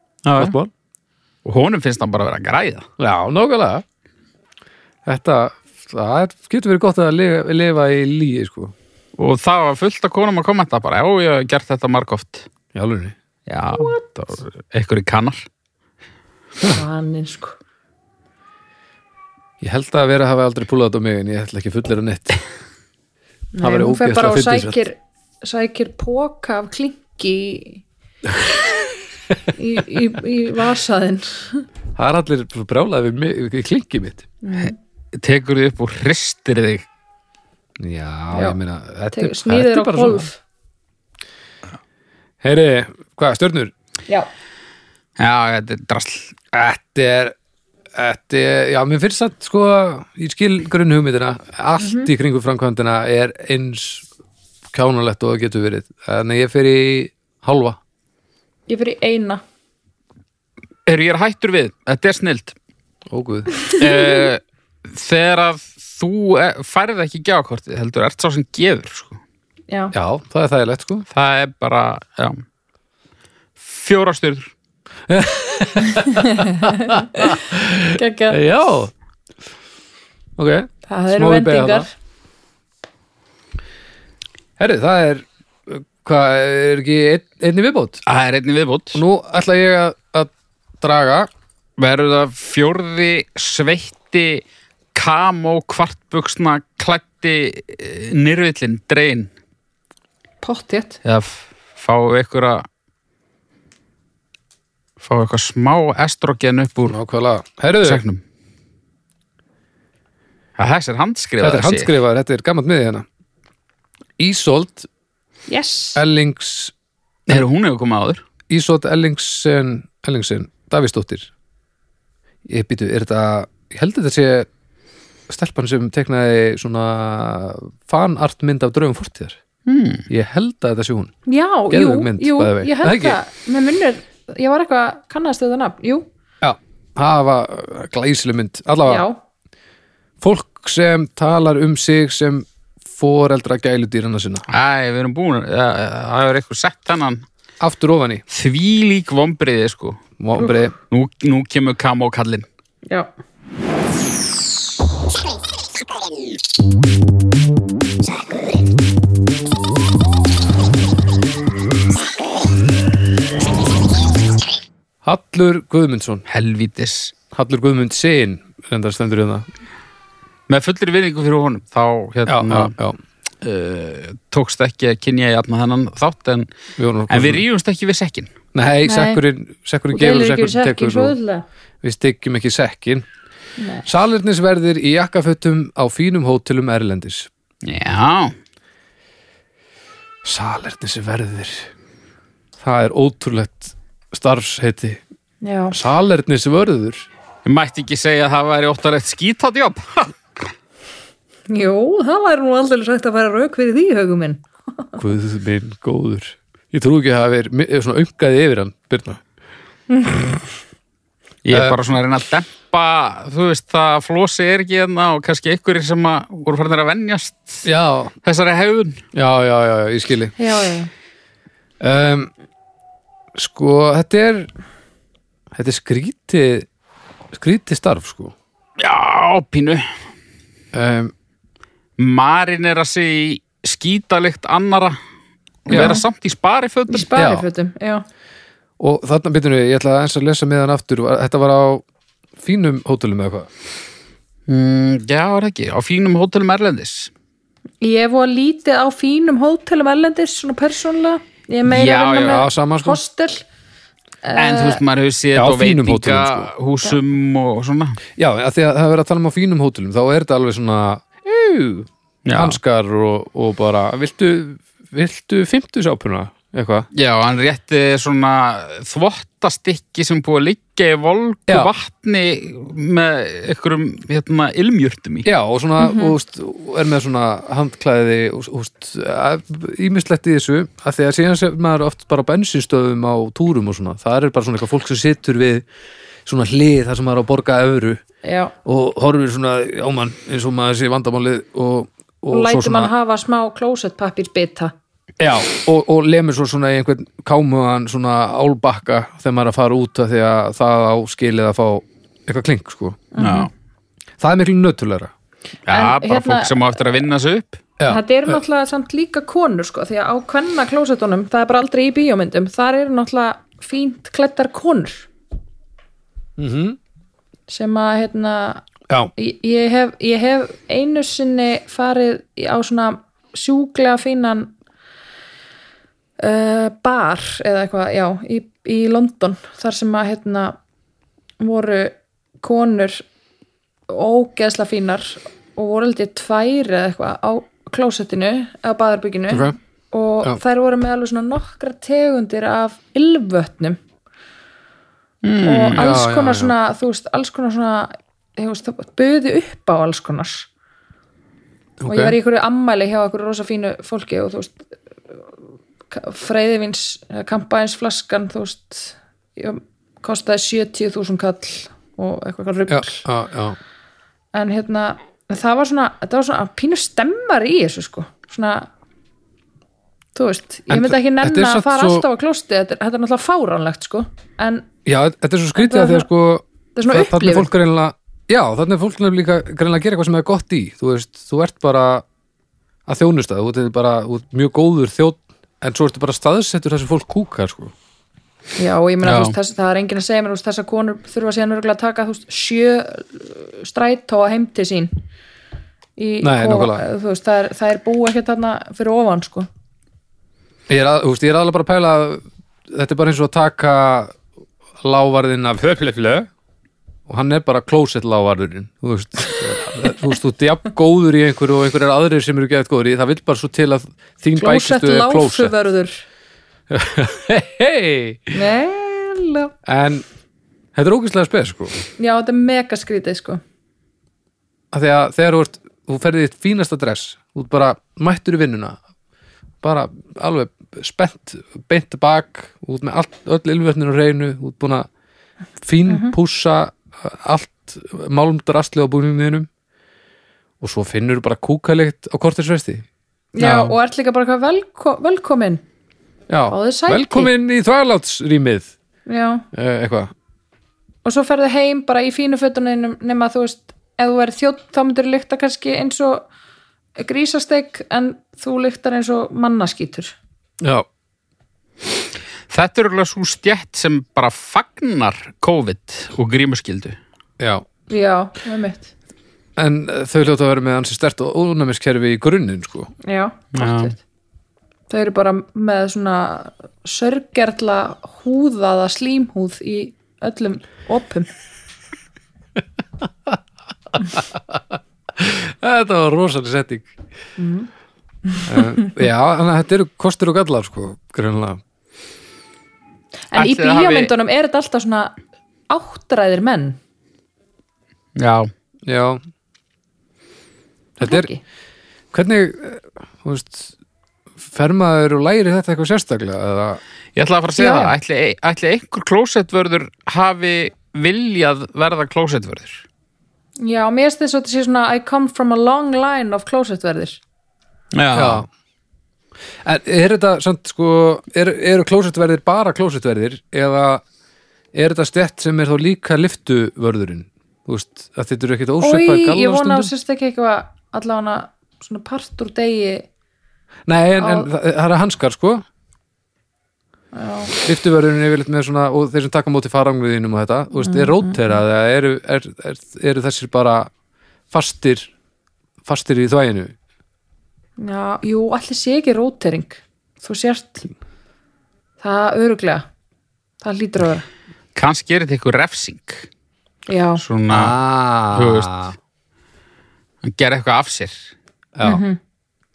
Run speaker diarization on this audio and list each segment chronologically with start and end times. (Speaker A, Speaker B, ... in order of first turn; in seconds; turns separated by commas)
Speaker A: 0.2-0.6, Speaker B: 0.3-0.7, Speaker A: 1.4-2.9, Speaker B: 3.0-3.8, Speaker B: 5.1-8.7, Speaker A: 9.2-12.5, Speaker B: 12.7-13.1, Speaker A: 13.5-15.5, Speaker C: 13.7-14.1, Speaker C: 16.7-17.6, Speaker B: 19.6-22.4, Speaker C: 23.5-27.8, Speaker B: 23.6-24.8, Speaker C: 29.6-31.6, Speaker B: 32.0-34.3, Speaker C: 34.4-34.8, Speaker A: 34.6-36.9, Speaker B: 37.8-40.3, Speaker C: 38.3-38.6, Speaker C: 39.1-40.4, Speaker B: 42.4-43.7, Speaker A: 45.2-46.4, Speaker B: 46.5-47.4, Speaker B: 48.0-54.1, Speaker C: 51.8-52.1, Speaker B: 54.7-57.8, Speaker C: 58.7-59.4, Speaker A: 60.9-62.6, Speaker B: 63.1-63.6, Speaker A: 63.7-69.2, Speaker C: 69.7-69.9, Speaker B: 69.9-71.0, Speaker A: 71.1-72.4, Speaker A: 73.6-74.5, Speaker B: 75.1-78.9, Speaker C: 75.9-77.4, Speaker C: 77.9-78.4, Speaker B: 80.4-81.9, Speaker C: 80.9-81.9, Speaker B: 84.6-88.0, Speaker A: 88.1-89.0, Speaker B: 88.9-91.3, Speaker A: 91.8-94.4, Speaker A: 95.0-99.3, Speaker C: 100.4-101.0, Speaker A: 101.0-102.6, Speaker A: 105.0-107.0, Speaker B: 106.9-108.0, Speaker A: 107.8-108.2, Speaker A: 110.6-111.9, Speaker B: 111.4-113.0, Speaker B: 114.2-114.9, Speaker C: 115.5-116.0, Speaker B: 116.0-116.7, Speaker A: 117.3-118.2, Speaker B: 118.5-121.3, Speaker B: 122.5-124.5, Speaker B: 125.3-129.4, Speaker A: 129.7-130.1, Speaker B: 130.1-131.1, Speaker C: 131.3-136.1, Speaker B: 131.7-133.2, Speaker B: 136.4-139.0, Speaker C: 138.9-139.2, Speaker B: 140.2-144.5, Speaker A: 144.5-147.2, Speaker B: 147.6-148.2, Speaker A: 148.3-150.0, Speaker B: 150.2-150.7, Speaker A: 150.9-152.5, Speaker B: 165.0-166.2, Speaker A: 166.3-167.1, Speaker B: 167.3-169.4, Speaker A: 170.5-172.7, Speaker B: 172.3-173.0, Speaker A: 173.4-176.5, Speaker B: 176.8-177.4, Speaker A: 177.1-178.3, Speaker B: 178.5-181.1, Speaker C: 178.8-179.2, Speaker C: 179.9-181.4, Speaker B: 181.8-183.1, Speaker C: 183.6-183.9, Speaker B: 183.8-187.3, Speaker A: 187.6-188.3, Speaker B: 190.2-191.7, Speaker B: 192.6-195.0, Speaker C: 195.4-195.8, Speaker B: 195.7-197.1, Speaker A: 197.4-200.1, Speaker C: 201.5-205.0, Speaker B: 205.0-209.2, Speaker A: 211.4-217.7, Speaker B: 211.5-211.8, Speaker B: 217.6-218.1, Speaker A: 218.2-219.0, Speaker B: 219.1-220.3, Speaker C: 220.4-220.9, Speaker B: 221.8-222.3, Speaker B: 223.3-224.5, Speaker B: 225.5-226.7, Speaker B: 227.3-228.3, Speaker A: 228.8-229.9, Speaker B: 230.7-231.1, Speaker A: 232.0-235.0, Speaker A: 235.7-237.1, Speaker B: 235.7-236.0, Speaker C: 235.7-236.1, Speaker C: 236.9-238.1, Speaker B: 237.2-237.4, Speaker B: 238.8-241.8, Speaker B: 242.4-243.5, Speaker A: 244.5-247.1, Speaker C: 247.8-253.4, Speaker A: 251.7-252.4, Speaker B: 252.2-253.0, Speaker C: 254.2-254.8, Speaker A: 254.4-258.0, Speaker B: 255.3-256.5, Speaker B: 258.2-266.9, Speaker A: 262.3-262.6, Speaker A: 266.9-275.3, Speaker B: 275.2-285.6, Speaker C: 275.8-276.1, Speaker B: 286.2-288.0, Speaker C: 288.2-288.5, Speaker B: 288.6-292.9, Speaker C: 292.3-294.7, Speaker B: 295.2-303.1, Speaker C: 303.1-303.5, Speaker A: 303.2-303.5, Speaker B: 304.2-305.1, Speaker A: 305.7-307.6, Speaker C: 305.7-306.8, Speaker B: 307.8-308.4, Speaker C: 307.9-315.1, Speaker B: 316.4-316.8, Speaker C: 317.5-318.6, Speaker C: 319.2-324.5, Speaker C: 326.2-330.6, Speaker C: 331.4-333.1, Speaker C: 333.9-343.8, Speaker B: 339.3-339.6, Speaker A: 345.2-345.9, Speaker C: 345.4-350.5, Speaker B: 345.7-346.5, Speaker B: 351.8-352.2, Speaker C: 351.9-354.6, Speaker C: 355.9-363.1, Speaker B: 362.7-363.6, Speaker C: 364.3-368.7, Speaker C: 370.1-374.7, Speaker B: 370.7-372.1, Speaker B: 374.9-382.1, Speaker C: 375.6-376.1, Speaker C: 376.8-377.5, Speaker B: 382.9-387.7, Speaker C: 388.6-394.9, Speaker A: 389.0-389.4, Speaker C: 396.0-399.5, Speaker B: 396.2-396.9, Speaker B: 400.7-404.1, Speaker B: 404.8-406.3, Speaker B: 407.1-415.5, Speaker C: 414.4-416.0, Speaker B: 416.7-418.4, Speaker C: 418.3-419.5, Speaker B: 419.6-420.1, Speaker B: 420.8-421.8, Speaker C: 422.0-423.4, Speaker B: 424.7-428.8, Speaker B: 429.6-434.9, Speaker B: 435.6-439.5, Speaker C: 435.9-436.1, Speaker B: 440.6-442.9, Speaker C: 443.4-445.6, Speaker A: 443.4-443.8, Speaker B: 446.3-448.7, Speaker C: 446.5-447.3, Speaker C: 449.1-449.5, Speaker B: 449.5-450.1, Speaker C: 451.1-456.3, Speaker C: 457.0-460.1, Speaker B: 460.6-460.9, Speaker A: 462.5-467.0, Speaker B: 467.4-467.6, Speaker C: 467.9-468.9, Speaker B: 469.6-472.9, Speaker C: 473.0-474.0, Speaker A: 473.6-473.9, Speaker C: 474.9-481.3, Speaker B: 483.0-483.4, Speaker B: 483.9-487.0, Speaker C: 487.4-487.7, Speaker C: 488.3-488.9, Speaker B: 488.5-491.6, Speaker C: 493.3-495.1, Speaker A: 493.4-494.1, Speaker C: 495.7-496.8, Speaker A: 498.2-498.5, Speaker B: 498.9-499.2, Speaker B: 501.0-501.3, Speaker C: 501.0-501.4, Speaker B: 502.1-503.7, Speaker B: 504.5-506.8, Speaker A: 507.2-512.9, Speaker C: 507.6-507.9, Speaker C: 513.6-517.2, Speaker A: 517.9-518.5, Speaker B: 518.1-518.5, Speaker B: 519.6-524.0, Speaker B: 524.7-529.9, Speaker C: 528.8-533.1, Speaker B: 533.9-535.6, Speaker C: 534.2-534.5, Speaker C: 537.1-537.5, Speaker B: 537.6-543.9, Speaker C: 540.8-541.6, Speaker B: 544.5-545.1, Speaker B: 545.9-546.8, Speaker C: 547.8-550.9, Speaker C: 552.0-552.9, Speaker C: 553.6-554.3, Speaker A: 554.8-556.3, Speaker C: 556.9-557.2, Speaker A: 557.2-557.7, Speaker B: 557.5-558.9, Speaker A: 558.3-558.9, Speaker A: 560.2-561.2, Speaker B: 561.8-562.0, Speaker C: 561.8-562.2